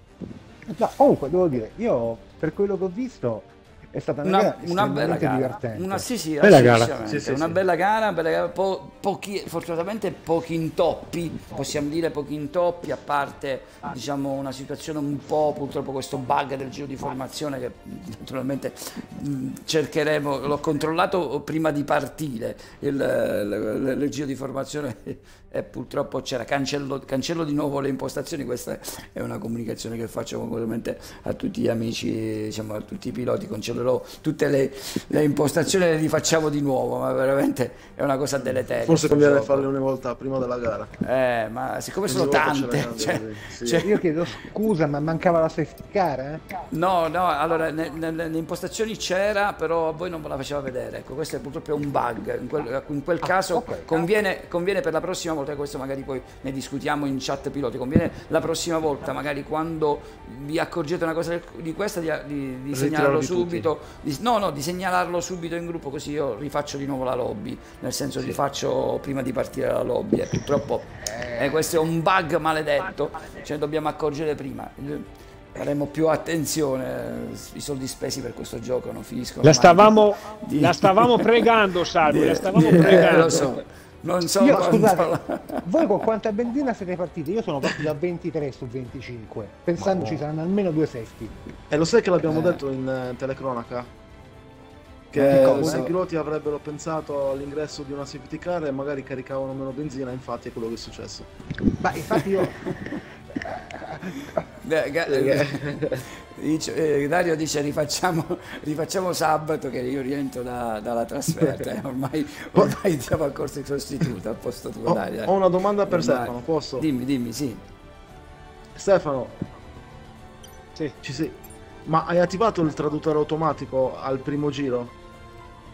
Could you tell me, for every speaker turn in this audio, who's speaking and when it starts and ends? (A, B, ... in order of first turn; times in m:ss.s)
0:00.7-0:06.1 A
0:04.2-0:39.7 B
0:06.4-0:06.9 C
0:07.0-0:07.6 D
0:38.4-0:40.9 D
0:41.0-0:44.0 B
0:42.0-0:43.9 D
0:43.8-0:46.4 A
0:46.7-1:21.5 B
0:53.2-0:53.9 A
1:02.7-1:03.7 D
1:11.1-1:11.4 A
1:19.4-1:23.6 C
1:22.0-1:25.9 B
1:22.6-1:22.8 D
1:24.4-1:31.4 A
1:24.5-1:24.8 D
1:29.8-1:30.2 D
1:31.7-1:33.9 D
1:32.2-1:32.6 B
1:35.1-1:41.3 D
1:35.1-1:35.9 B
1:35.2-1:35.9 A
1:41.8-1:42.6 A
1:44.4-1:55.4 B
1:45.1-1:46.0 D
1:54.8-1:56.9 D
1:55.9-1:57.6 B
1:58.7-1:59.4 D
2:01.0-2:04.9 D